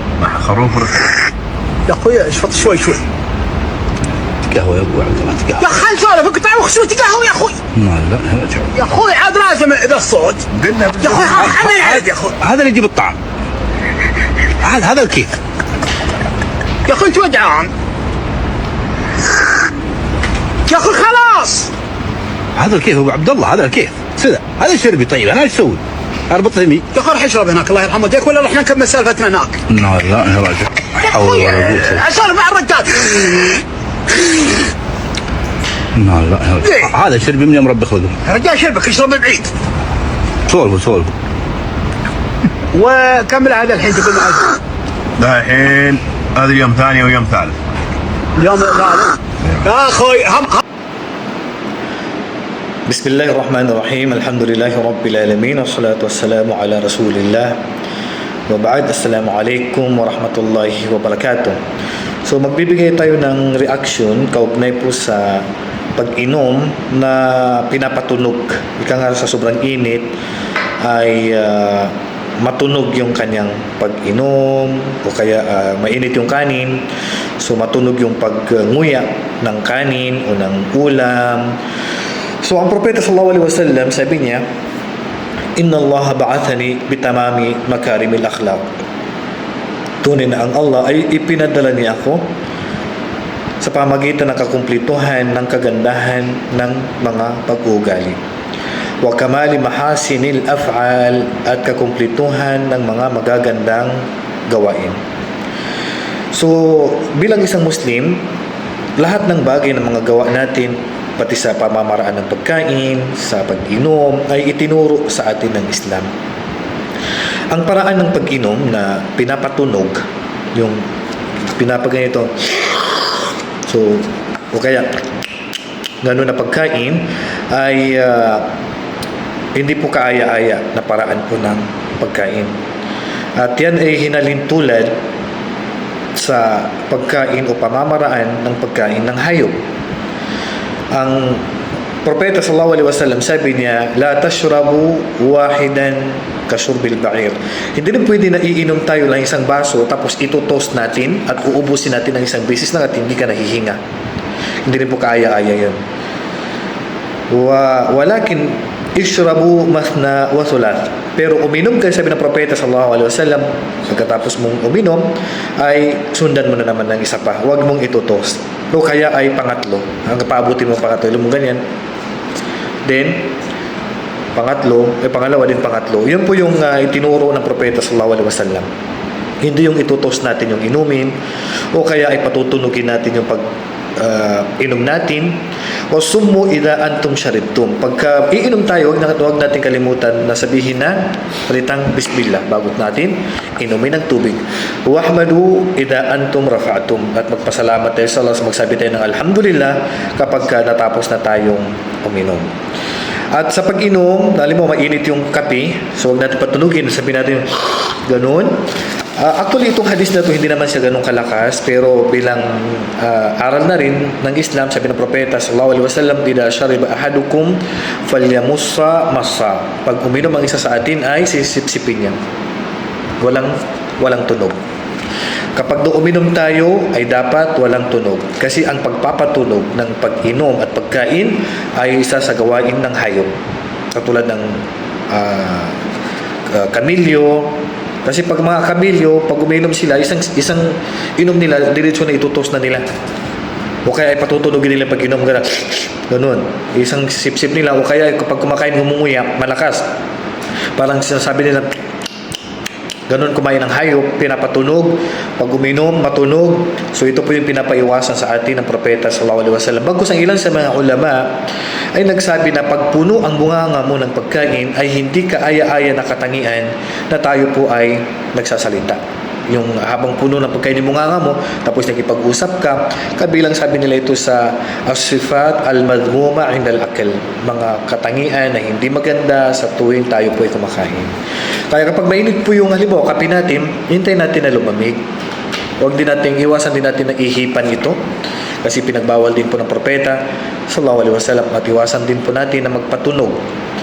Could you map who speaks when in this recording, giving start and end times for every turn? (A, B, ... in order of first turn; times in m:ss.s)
0:00.2-0:01.1 A
0:01.9-0:03.0 B
0:04.5-0:05.8 C
0:05.6-0:07.6 B
0:07.7-0:08.7 C
0:08.7-0:10.4 B
0:10.6-0:11.2 A
0:11.0-0:12.3 B
0:11.4-0:13.2 C
0:14.6-0:15.3 C
0:16.8-0:17.7 B
0:20.7-0:21.7 B
0:22.5-0:26.8 C
0:26.9-0:29.6 B
0:29.7-0:32.0 C
0:31.0-0:33.6 B
0:34.2-0:34.5 B
0:36.0-0:38.2 C
0:36.6-0:36.9 B
0:38.2-0:39.5 B
0:40.5-0:41.1 C
0:42.7-0:44.6 B
0:45.2-0:47.6 A
0:48.4-0:50.6 B
0:52.9-0:57.5 D
0:58.5-1:01.6 D
1:02.2-1:05.4 D
1:06.0-1:10.1 D
1:10.8-1:16.8 D
1:17.4-1:21.6 D
1:22.4-1:24.4 D
1:25.6-1:28.7 D
1:30.0-1:32.2 D
1:33.6-1:38.2 D
1:39.0-1:45.0 D
1:46.3-1:48.2 D
1:49.0-1:56.1 D
1:57.5-2:00.8 D
2:01.6-2:02.7 D
2:03.6-2:04.9 D
2:06.0-2:08.5 D
2:09.5-2:12.5 D
2:13.4-2:14.9 D
2:16.1-2:19.5 D
2:20.9-2:21.4 D
2:22.0-2:33.8 D
2:34.6-2:35.8 D
2:37.3-2:51.6 D
2:52.8-2:53.3 D
2:54.3-2:58.7 D
2:59.4-3:01.1 D
3:01.7-3:22.4 D
3:23.3-3:28.6 D
3:29.2-3:42.2 D
3:43.2-3:44.6 D
3:45.6-3:53.3 D
3:53.9-3:54.6 D
3:55.1-3:55.8 D
3:56.5-3:57.5 D
3:58.0-4:02.8 D
4:03.8-4:09.8 D
4:10.8-4:11.7 D
4:13.1-4:21.3 D
4:21.9-4:41.1 D
4:41.7-4:45.0 D
4:45.8-4:48.0 D
4:48.6-4:53.4 D